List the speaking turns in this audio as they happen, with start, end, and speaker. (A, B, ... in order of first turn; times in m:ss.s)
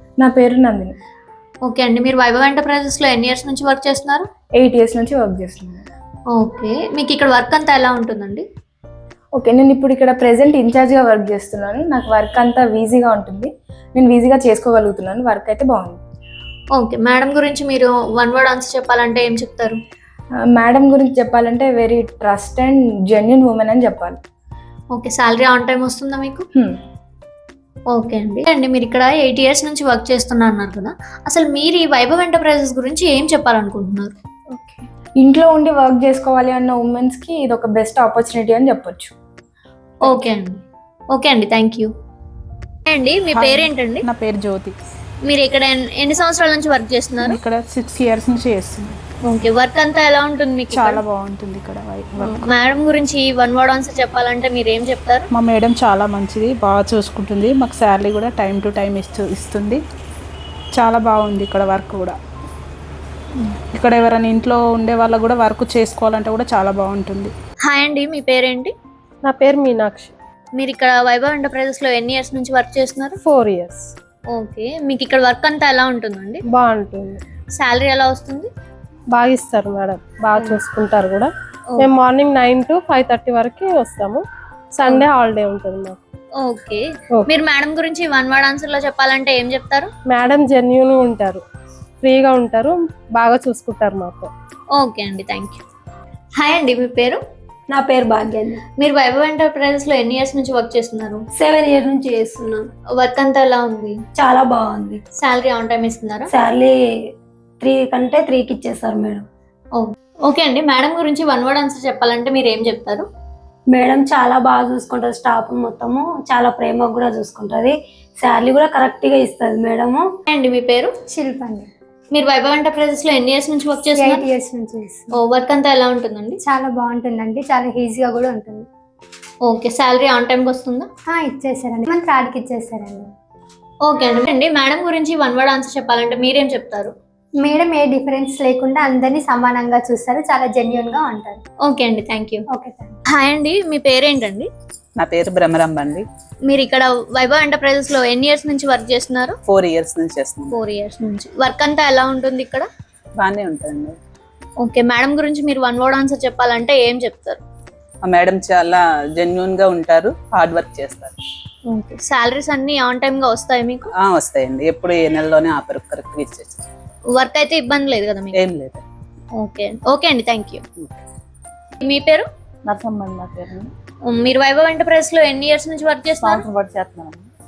0:00.2-0:01.0 A
0:01.6-0:04.3 B
0:04.6-0:05.9 A
0:06.3-0:08.4 B
0:09.4-0:16.0 A
0:16.8-0:19.8 B
0:20.5-0:24.2 A
0:24.9-0:26.5 B
0:27.9-0:34.1 B
0:34.5-0:39.1 A
0:40.0-0:40.6 B
0:41.1-0:41.9 B
0:42.9-0:44.1 B
0:43.3-0:44.7 C
0:45.3-0:47.4 B
0:47.2-0:49.0 C
0:49.3-0:51.0 B
0:50.7-0:52.5 C
0:52.2-0:55.3 B
0:55.3-0:59.8 C
1:00.8-1:02.2 C
1:03.7-1:07.3 C
1:07.7-1:08.7 B
1:09.2-1:10.1 D
1:10.6-1:13.2 B
1:13.2-1:13.9 D
1:14.3-1:16.4 B
1:16.5-1:17.2 D
1:17.6-1:18.5 B
1:19.1-1:24.2 D
1:24.7-1:26.0 D
1:26.4-1:29.9 B
1:30.1-1:31.4 D
1:32.0-1:34.3 D
1:34.7-1:35.6 B
1:36.4-1:37.2 B
1:37.7-1:38.6 E
1:38.8-1:41.2 B
1:41.3-1:42.7 E
1:43.0-1:44.0 B
1:44.2-1:45.0 E
1:45.2-1:46.3 B
1:46.3-1:46.8 E
1:47.6-1:49.3 E
1:49.8-1:53.1 B
1:53.7-2:00.1 E
2:00.3-2:00.9 B
2:01.1-2:01.7 F
2:02.1-2:04.3 B
2:03.9-2:05.1 F
2:05.1-2:06.4 B
2:06.4-2:08.7 F
2:09.4-2:10.9 B
2:11.1-2:13.1 F
2:13.8-2:16.9 B
2:17.4-2:21.4 F
2:21.7-2:22.4 B
2:22.5-2:23.0 F
2:23.1-2:24.5 B
2:25.0-2:26.0 G
2:26.5-2:29.4 B
2:29.5-2:30.6 G
2:30.5-2:32.7 B
2:33.2-2:34.0 G
2:34.6-2:37.4 B
2:38.0-2:41.2 G
2:41.7-2:43.9 B
2:44.0-2:46.7 G
2:47.1-2:48.4 B
2:48.4-2:48.8 G
2:49.4-2:50.6 B
2:51.8-2:52.3 B
2:52.6-2:53.7 H
2:54.1-2:56.5 B
2:56.2-2:57.3 H